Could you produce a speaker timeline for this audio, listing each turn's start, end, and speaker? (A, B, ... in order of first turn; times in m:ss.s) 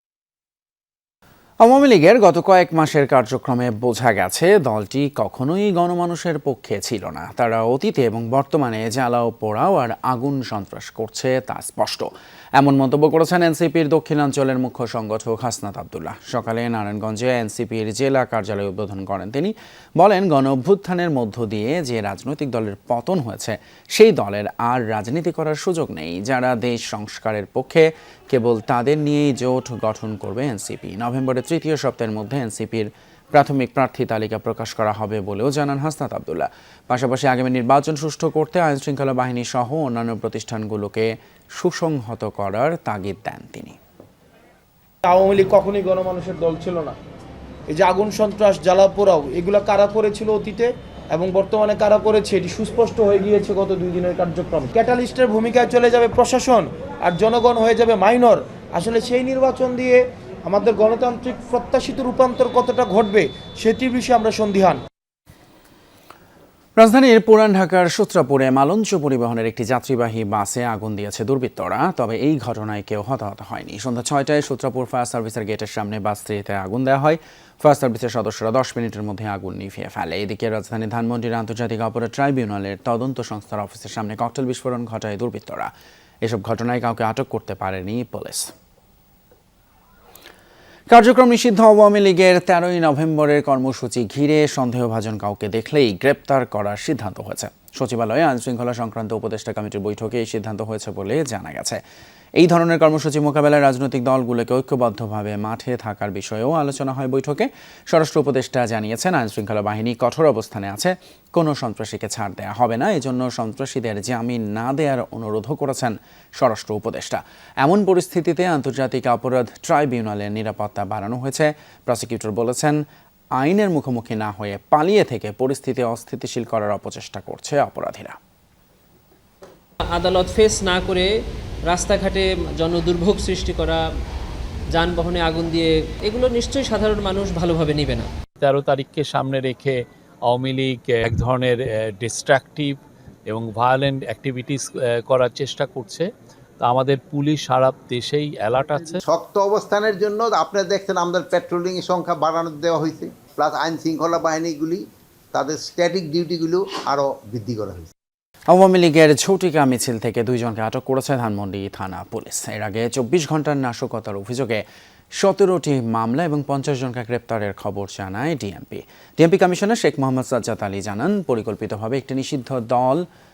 0:01.6-0:43.8 A
0:45.0-0:47.0 B
0:47.7-1:04.8 B
1:06.8-1:25.7 A
1:26.2-1:28.5 A
1:30.9-1:41.8 A
1:42.4-2:02.8 A
2:03.4-2:08.2 A
2:09.9-2:11.1 C
2:11.6-2:13.8 C
2:14.7-2:18.1 C
2:18.4-2:26.1 D
2:26.6-2:29.0 D
2:29.0-2:34.8 E
2:35.3-2:37.9 E
2:38.5-2:44.6 A
2:45.2-2:53.0 A